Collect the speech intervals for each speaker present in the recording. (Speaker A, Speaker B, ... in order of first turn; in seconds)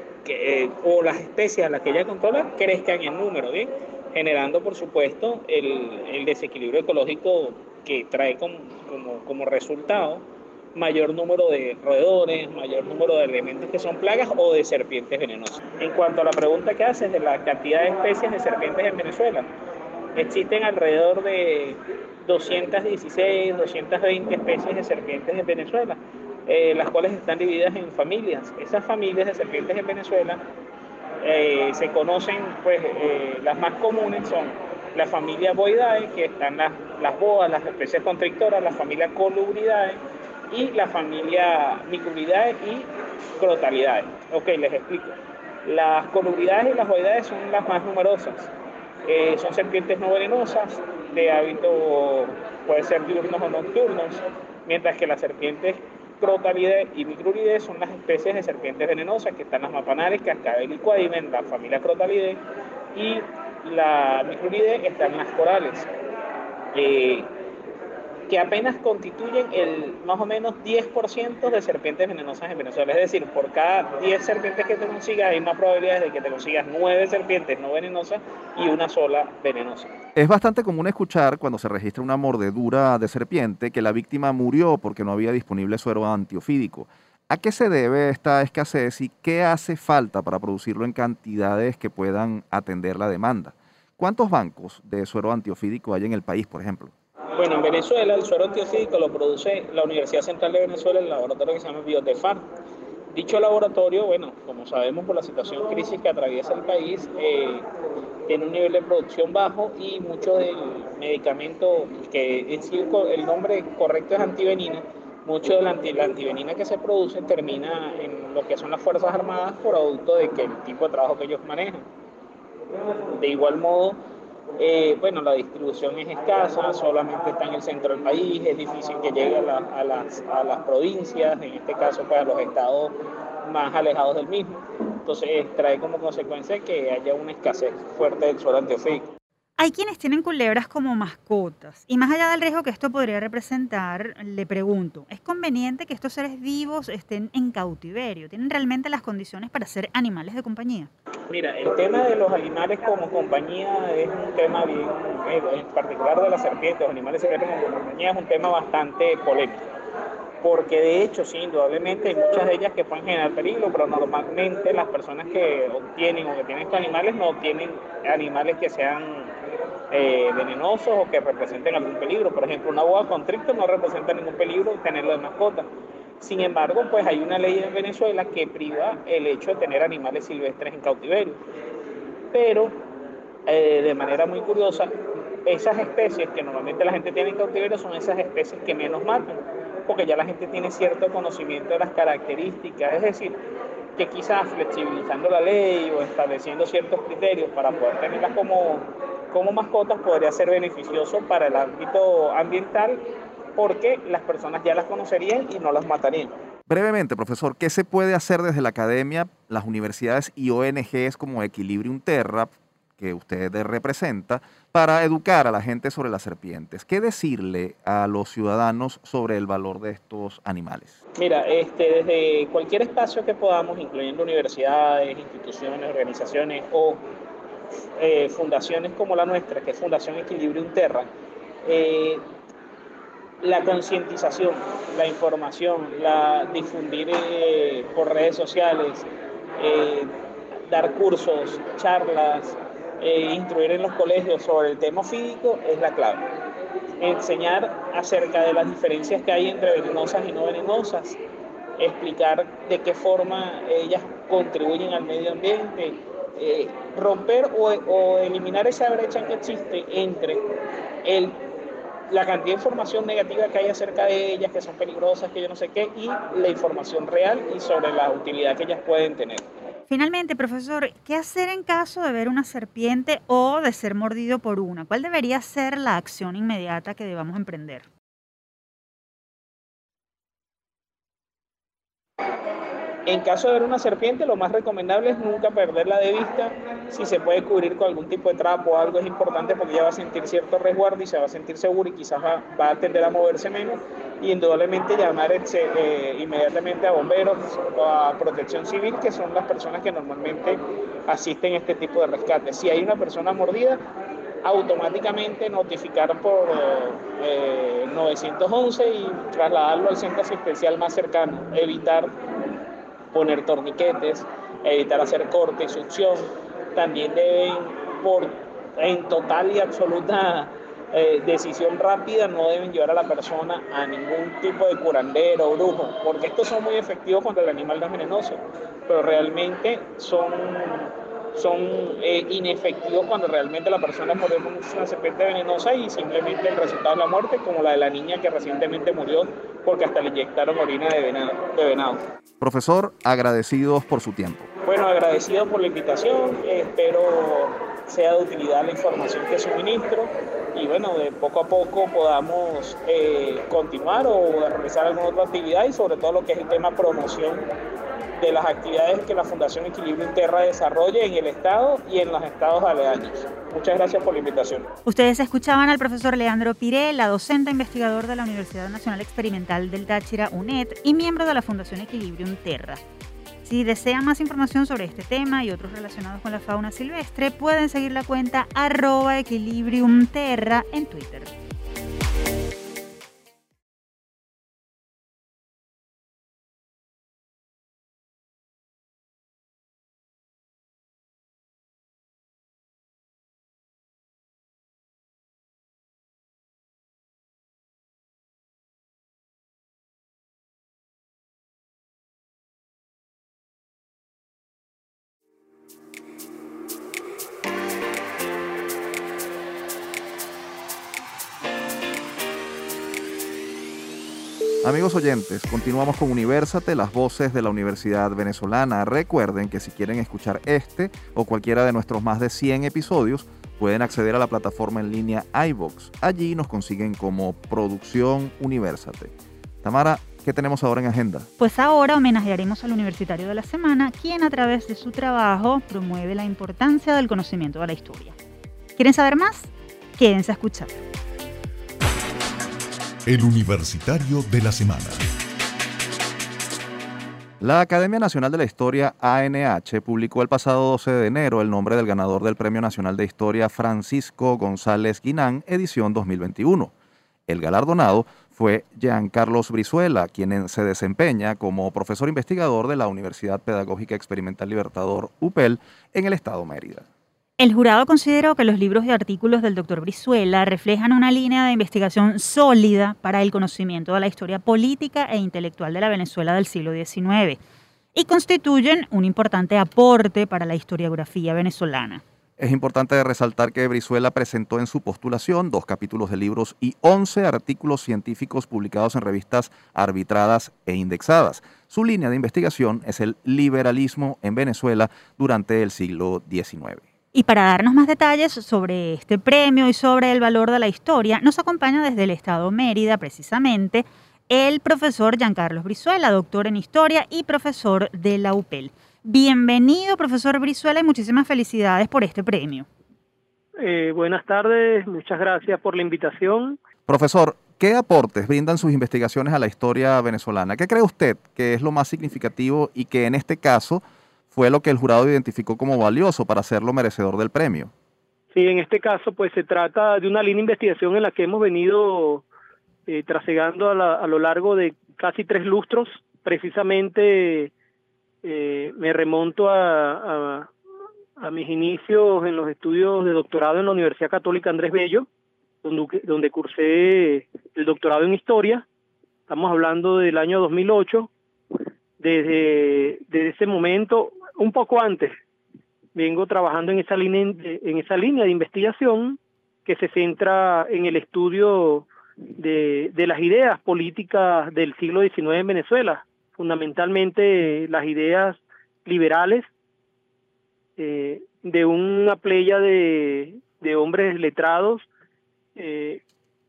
Speaker A: 0.2-19.5, 20.2-30.4, 31.2-48.5, 49.1-62.4, 62.9-65.9, 66.7-67.3, 68.3-79.9, 97.3-102.5, 103.1-107.7, 108.3-121.9, 123.2-124.0, 124.6-139.1, 151.3-159.7, 160.4-169.3, 169.9-175.7, 176.2-181.4, 182.3-182.8, 183.5-184.9, 185.5-193.4, 194.0-203.0, 203.6-206.4, 221.2-227.1, 228.0-231.1, 231.7-232.2, 233.4-239.1, 239.6-240.1, 240.7-246.2, 247.0-251.2, 251.8-260.4, 261.0-261.4, 262.1-269.5, 283.1-303.8, 304.4-312.1, 313.1-342.0, 344.6-357.5, 358.2-364.7
Speaker B: 80.2-96.9, 206.7-221.0, 342.4-344.5, 414.6-431.3, 447.4-456.7, 457.3-466.9, 482.4-496.9, 516.9-527.7
Speaker C: 139.6-150.9, 269.9-277.9, 364.9-372.8, 373.4-381.3, 431.4-438.2, 438.8-440.9, 467.4-477.4, 477.9-482.0, 497.1-512.7
Speaker D: 443.1-445.0
Speaker E: 513.6-516.6, 528.3-532.2, 532.9-537.5, 538.2-540.5, 541.2-545.1, 545.6-548.6, 549.3-551.1, 552.0-555.1, 556.0-561.9, 562.4-569.5, 570.8-574.9, 575.6-576.0